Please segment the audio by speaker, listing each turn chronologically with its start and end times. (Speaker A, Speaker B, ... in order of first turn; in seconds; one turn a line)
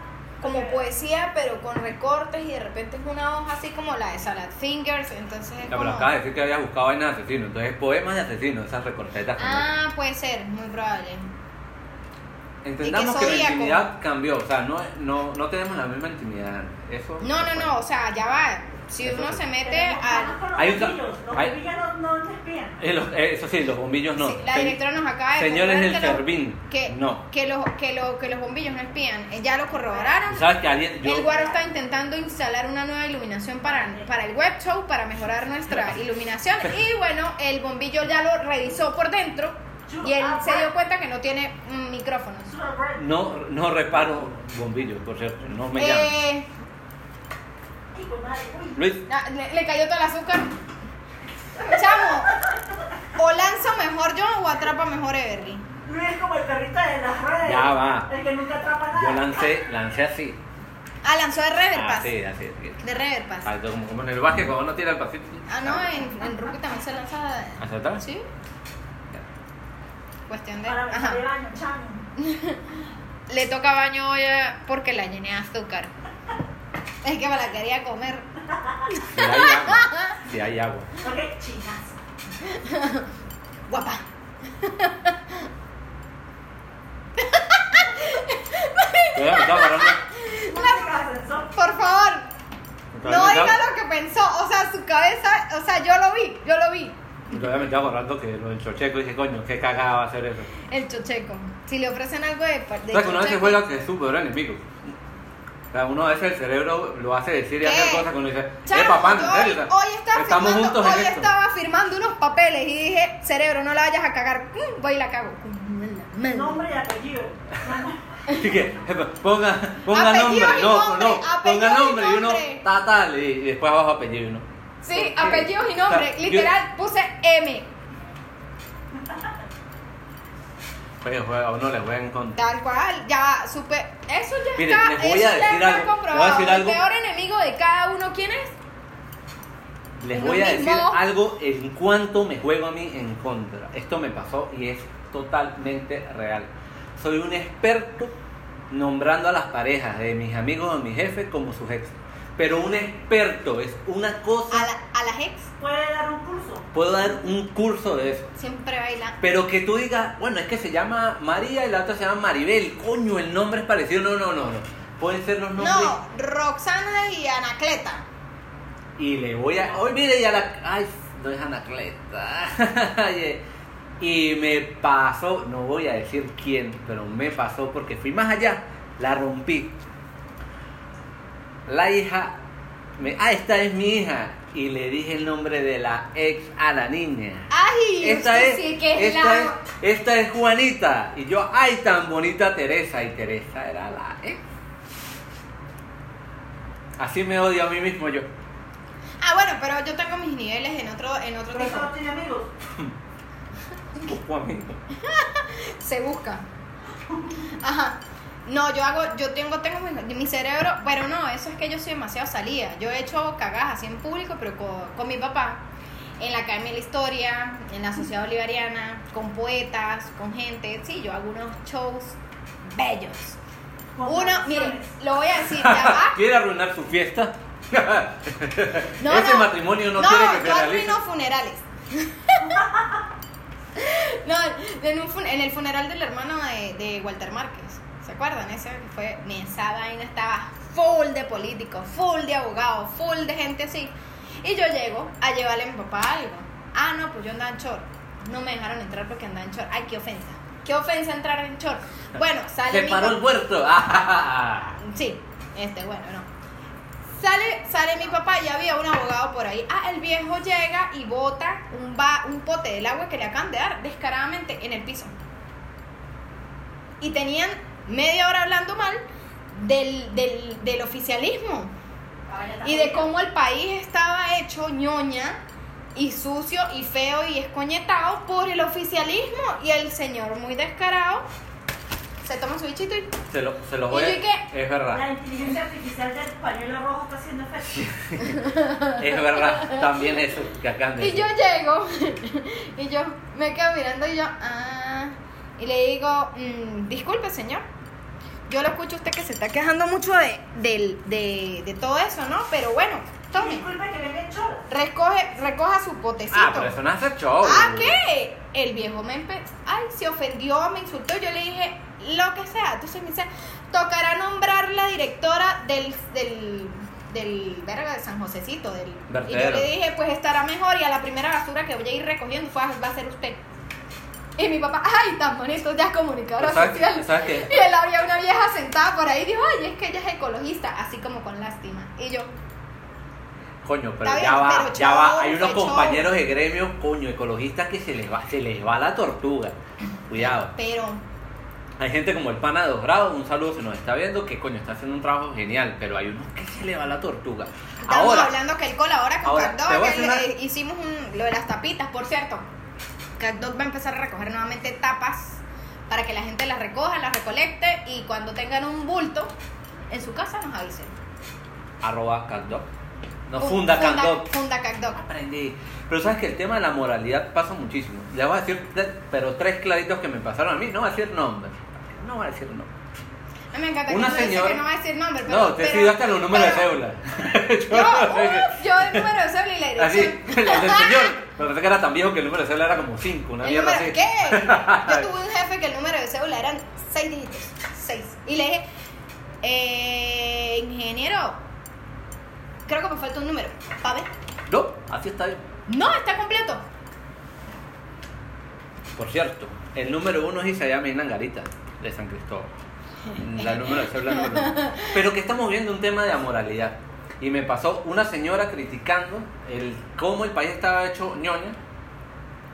Speaker A: 0.4-0.8
Speaker B: 0.4-6.1
Speaker C: 5.7-9.7
Speaker B: 9.4-11.3
Speaker C: 12.6-17.8
Speaker B: 12.8-13.8
Speaker B: 17.2-20.4
Speaker C: 19.0-19.4
Speaker A: 19.6-22.8
Speaker C: 20.6-21.6
Speaker C: 22.8-24.8
Speaker B: 24.2-42.5
Speaker C: 25.4-27.2
Speaker A: 29.8-30.2
Speaker C: 30.3-31.3
Speaker A: 31.3-31.6
Speaker A: 33.7-34.0
Speaker A: 39.9-40.7
Speaker A: 42.5-43.1
Speaker C: 43.0-46.2
Speaker B: 45.8-46.5
Speaker A: 47.9-48.9
Speaker C: 48.8-49.0
Speaker B: 49.1-50.5
Speaker A: 51.6-52.6
Speaker B: 51.6-52.4
Speaker B: 53.2-55.6
Speaker A: 55.9-59.5
Speaker C: 57.4-58.1
Speaker C: 58.9-60.4
Speaker B: 61.0-62.1
Speaker C: 61.7-62.8
Speaker B: 62.8-63.5
Speaker C: 63.5-66.1
Speaker B: 65.5-68.3
Speaker C: 67.6-68.0
Speaker B: 70.3-71.2
Speaker A: 70.7-72.0
Speaker B: 72.2-72.8
Speaker B: 73.3-75.9
Speaker B: 77.0-78.2
Speaker A: 78.5-78.8
Speaker B: 78.9-80.2
Speaker C: 79.1-80.9
Speaker A: 81.0-82.0
Speaker B: 82.4-83.1
Speaker B: 83.7-84.0
Speaker B: 84.6-85.5
Speaker B: 87.2-90.8
Speaker C: 89.1-90.0
Speaker A: 90.3-91.5
Speaker B: 91.5-92.3
Speaker C: 92.9-93.6
Speaker B: 93.0-97.0
Speaker C: 97.3-100.5
Speaker B: 100.7-103.6
Speaker C: 102.9-104.9
Speaker C: 105.7-111.3
Speaker B: 107.6-108.1
Speaker B: 108.7-116.6
Speaker A: 116.3-118.2
Speaker C: 118.3-126.5
Speaker B: 119.9-122.6
Speaker B: 124.8-127.7
Speaker C: 131.0-132.4
Speaker B: 132.4-138.5
Speaker C: 134.6-136.8
Speaker C: 140.0-148.2
Speaker B: 140.1-141.0
Speaker C: 148.7-154.7
Speaker B: 154.5-155.5
Speaker A: 155.6-156.7
Speaker C: 156.7-158.3
Speaker B: 158.4-159.2
Speaker C: 159.2-166.0
Speaker B: 165.6-168.1
Speaker C: 169.0-173.4
Speaker C: 174.0-179.8
Speaker C: 181.7-182.3
Speaker C: 183.0-187.5
Speaker B: 187.5-189.6
Speaker C: 188.0-194.4
Speaker C: 197.0-198.3
Speaker B: 199.2-201.9
Speaker A: 201.5-202.5
Speaker C: 204.0-204.8
Speaker B: 205.0-206.4
Speaker B: 207.6-215.6
Speaker B: 216.2-223.4
Speaker A: 223.9-225.0
Speaker B: 224.1-226.2
Speaker C: 225.5-231.0
Speaker B: 229.0-232.6
Speaker A: 232.4-233.0
Speaker B: 233.8-253.2
Speaker C: 252.7-254.8
Speaker B: 254.8-256.3
Speaker B: 257.2-265.1
Speaker B: 267.0-269.0
Speaker B: 269.5-271.7
Speaker A: 272.3-273.1
Speaker B: 272.6-275.4
Speaker B: 275.9-281.3
Speaker B: 282.2-283.2
Speaker C: 283.3-285.1
Speaker B: 283.9-284.5
Speaker A: 284.9-287.9
Speaker C: 287.7-291.3
Speaker B: 288.2-290.2
Speaker B: 291.0-297.6
Speaker B: 298.5-303.6
Speaker A: 303.3-304.6
Speaker B: 304.7-306.8
Speaker C: 306.3-308.0
Speaker B: 307.4-323.4
Speaker C: 319.1-319.7
Speaker B: 324.4-332.3
Speaker C: 326.4-327.6
Speaker C: 333.6-339.6
Speaker B: 334.0-336.1
Speaker C: 340.1-340.5
Speaker B: 340.2-341.0
Speaker C: 341.8-348.4
Speaker B: 347.8-352.4
Speaker C: 349.2-350.3
Speaker B: 353.2-359.3
Speaker B: 359.9-360.9
Speaker C: 361.8-362.7
Speaker C: 363.3-364.3
Speaker B: 363.4-365.0
Speaker C: 364.9-372.7
Speaker B: 373.5-376.7
Speaker C: 373.9-374.6
Speaker C: 375.3-379.1
Speaker B: 377.6-381.2
Speaker C: 379.8-385.1
Speaker B: 383.4-388.6
Speaker B: 389.4-391.4
Speaker B: 392.7-394.1
Speaker C: 394.5-395.4
Speaker B: 395.7-396.6
Speaker C: 399.0-402.5
Speaker B: 403.1-405.0
Speaker C: 403.2-411.6